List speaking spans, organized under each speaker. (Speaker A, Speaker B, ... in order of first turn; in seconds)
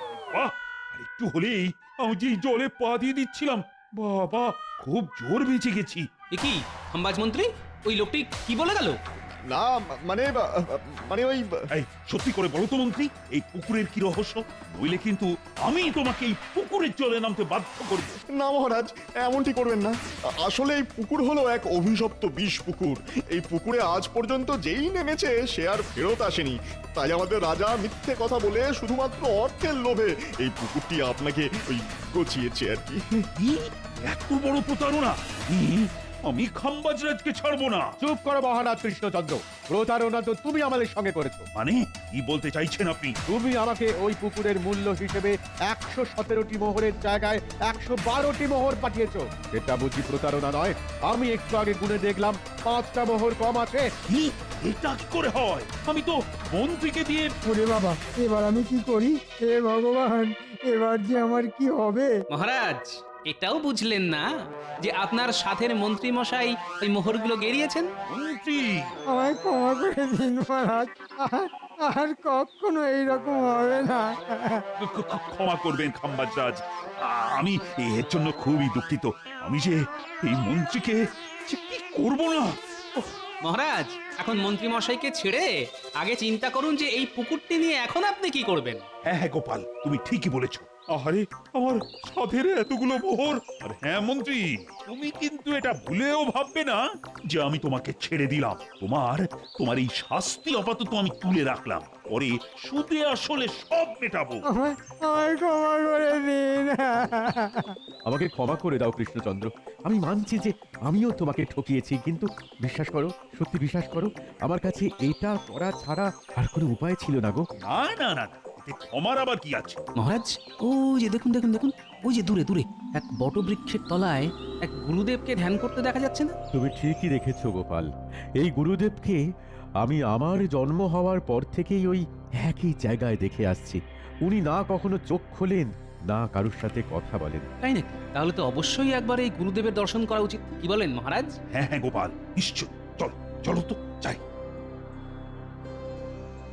Speaker A: 0.3-6.0, 11.7-18.2, 33.4-37.9, 41.5-43.1, 54.1-57.3, 68.1-68.9, 74.8-83.1, 89.0-96.8, 97.3-104.4, 117.6-119.8, 141.5-144.2
Speaker B: 6.3-9.0, 62.3-64.3, 64.8-67.9, 83.4-88.8, 120.0-126.3, 137.6-141.3
Speaker C: 9.5-11.5, 18.3-33.2
Speaker D: 38.0-41.5, 43.3-53.9, 108.1-117.4, 126.5-129.2, 129.8-137.5
Speaker E: 57.5-62.1, 69.1-74.6, 104.5-107.7